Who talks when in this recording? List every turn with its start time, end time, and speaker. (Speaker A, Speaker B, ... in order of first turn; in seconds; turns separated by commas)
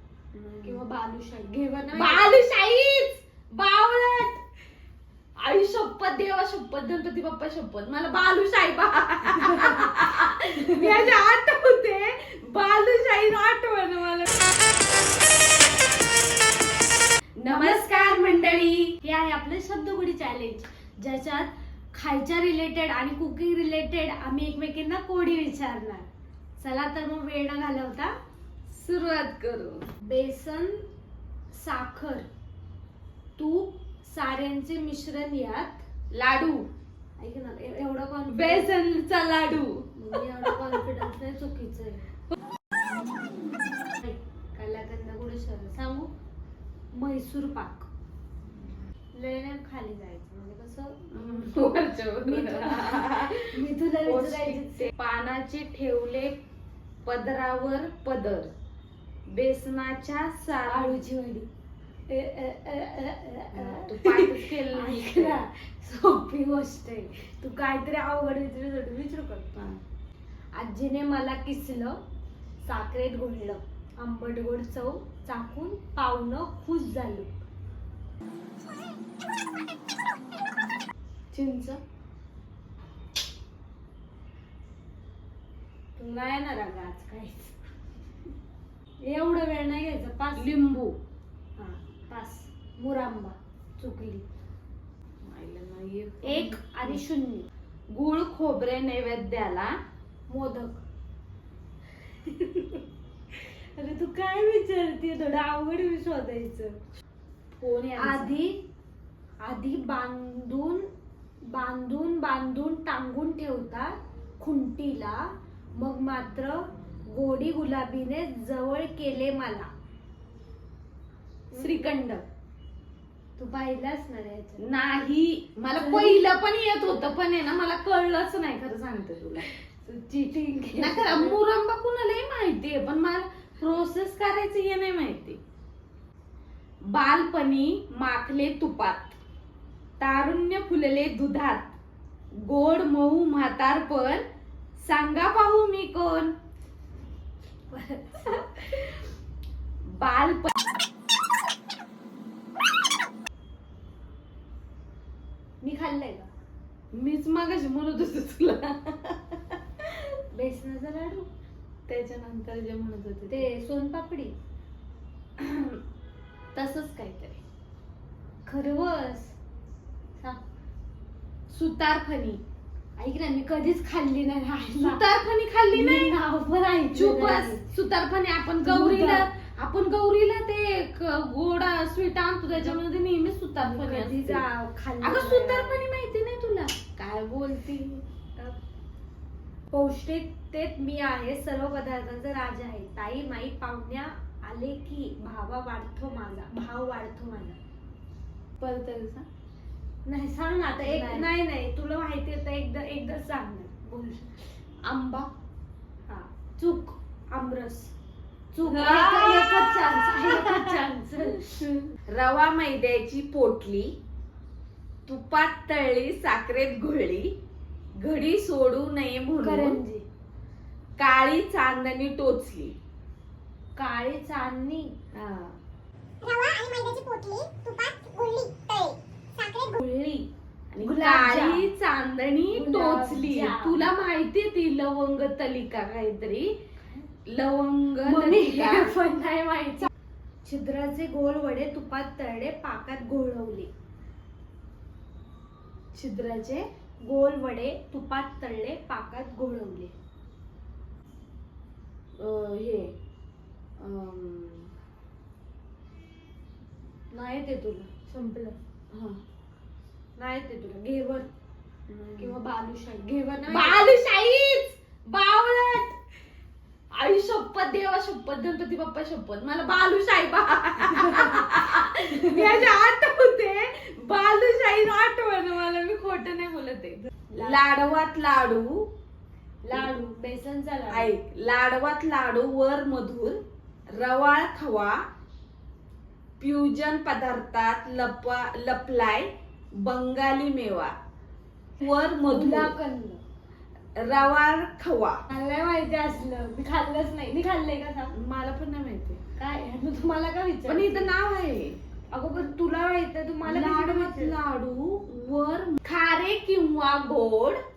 Speaker A: 0.3-0.8, Speaker B: 0.6-2.4, Speaker A: 1.9-4.4, Speaker A: 5.4-14.3, Speaker B: 10.7-11.1, Speaker A: 17.4-19.0, Speaker B: 17.5-18.5, Speaker B: 19.0-28.1, Speaker A: 28.7-29.9, Speaker B: 30.0-30.8, Speaker B: 31.5-32.2, Speaker B: 33.4-35.8, Speaker A: 36.1-36.7, Speaker B: 37.2-38.7, Speaker A: 38.3-39.9, Speaker B: 39.9-42.1, Speaker B: 44.0-46.1, Speaker B: 46.9-47.9, Speaker B: 49.1-54.9, Speaker A: 51.1-56.4, Speaker A: 57.0-58.5, Speaker A: 59.3-61.0, Speaker B: 60.7-61.5, Speaker B: 62.1-69.5, Speaker A: 63.5-65.4, Speaker A: 69.5-69.8, Speaker B: 70.5-72.0, Speaker B: 72.6-77.3, Speaker A: 81.3-81.8, Speaker B: 86.0-87.5, Speaker B: 89.0-90.5, Speaker A: 90.3-91.0, Speaker B: 91.6-94.2, Speaker A: 95.2-97.0, Speaker B: 96.2-97.5, Speaker A: 97.9-99.7, Speaker B: 100.3-100.8, Speaker B: 102.2-106.8, Speaker A: 107.6-108.3, Speaker B: 108.0-108.6, Speaker B: 109.4-110.8, Speaker B: 111.5-119.7, Speaker B: 121.5-122.0, Speaker A: 121.5-122.2, Speaker B: 123.4-124.6, Speaker A: 124.6-129.5, Speaker B: 125.7-126.2, Speaker B: 129.8-131.4, Speaker A: 130.8-135.4, Speaker A: 136.8-139.2, Speaker A: 140.0-141.8, Speaker A: 142.4-144.2, Speaker A: 144.8-146.3, Speaker B: 147.7-148.8, Speaker A: 148.3-148.8, Speaker A: 149.8-150.5, Speaker B: 155.6-156.3, Speaker A: 156.9-160.0, Speaker B: 160.3-161.3, Speaker A: 161.9-163.5, Speaker B: 163.3-164.3, Speaker A: 165.4-165.8, Speaker A: 166.5-167.4, Speaker B: 168.4-169.4, Speaker A: 171.5-172.4, Speaker B: 173.0-175.0, Speaker A: 174.8-176.1, Speaker B: 175.7-177.6, Speaker A: 176.9-184.4, Speaker B: 178.6-179.3, Speaker B: 183.6-185.8, Speaker A: 185.0-188.0, Speaker B: 189.7-197.6, Speaker A: 198.6-199.2, Speaker B: 200.0-204.4, Speaker A: 200.8-201.3, Speaker A: 204.8-205.3, Speaker B: 206.1-207.9, Speaker B: 208.5-211.6, Speaker A: 208.6-213.9, Speaker A: 215.1-217.3, Speaker A: 218.0-219.8, Speaker B: 219.4-220.0, Speaker A: 221.0-222.7, Speaker B: 223.8-224.9, Speaker A: 225.1-225.6, Speaker C: 226.2-229.8, Speaker A: 229.8-236.5, Speaker B: 230.8-231.7, Speaker B: 232.5-233.9, Speaker A: 237.3-239.9, Speaker B: 238.0-239.9, Speaker B: 240.4-243.7, Speaker A: 245.9-246.7, Speaker B: 247.0-249.9, Speaker A: 252.2-252.9, Speaker A: 253.8-254.7, Speaker B: 257.1-258.6, Speaker A: 258.9-259.2, Speaker B: 260.2-261.3, Speaker A: 261.9-262.3, Speaker B: 262.2-263.9, Speaker A: 263.5-265.9, Speaker A: 266.9-278.9, Speaker B: 271.0-271.4, Speaker B: 277.3-277.6, Speaker B: 279.6-281.1, Speaker A: 280.9-283.4, Speaker A: 283.9-285.0, Speaker A: 286.4-290.9, Speaker A: 291.8-292.7, Speaker B: 292.3-293.2, Speaker A: 294.0-295.2, Speaker B: 295.3-298.1, Speaker A: 298.1-299.2, Speaker B: 299.4-301.1, Speaker A: 300.6-301.8, Speaker B: 302.1-304.3, Speaker A: 303.4-307.6